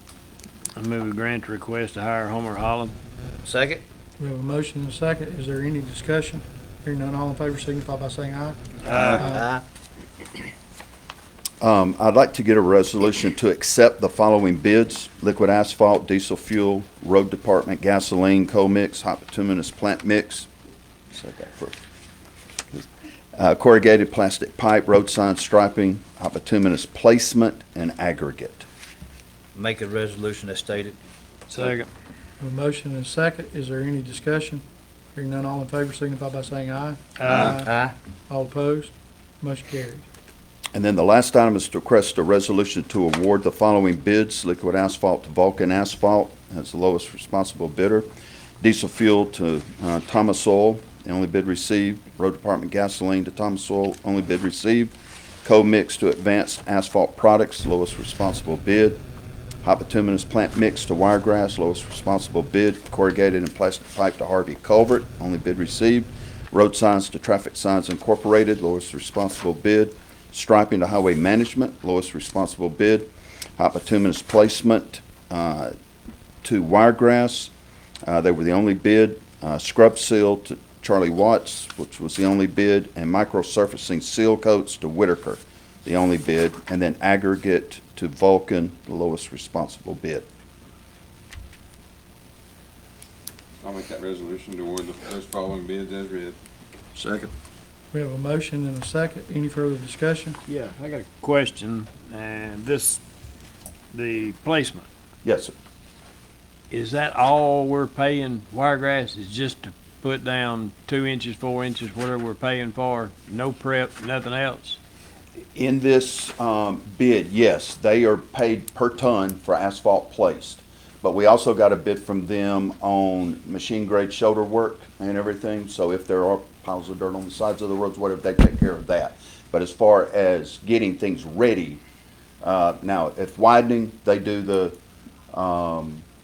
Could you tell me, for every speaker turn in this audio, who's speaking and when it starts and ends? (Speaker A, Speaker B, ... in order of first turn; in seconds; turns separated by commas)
Speaker A: 0.7-2.9, Speaker B: 3.4-3.8, Speaker C: 4.2-9.5, Speaker B: 8.8-9.6, Speaker D: 11.6-20.5, Speaker D: 21.1-21.8, Speaker D: 22.7-28.6, Speaker B: 29.5-31.0, Speaker A: 31.5-31.9, Speaker C: 32.4-37.7, Speaker A: 37.2-37.6, Speaker B: 37.2-37.9, Speaker C: 38.3-40.0, Speaker D: 40.7-48.1, Speaker D: 48.6-59.0, Speaker D: 59.6-75.7, Speaker D: 76.4-77.5, Speaker D: 78.0-90.2, Speaker E: 93.6-96.4, Speaker E: 97.0-97.3, Speaker C: 97.9-100.4, Speaker A: 100.5-103.0, Speaker A: 103.9-104.9, Speaker D: 105.2-105.5, Speaker A: 106.7-114.8, Speaker D: 115.5-131.8, Speaker D: 132.4-134.8, Speaker D: 135.3-136.0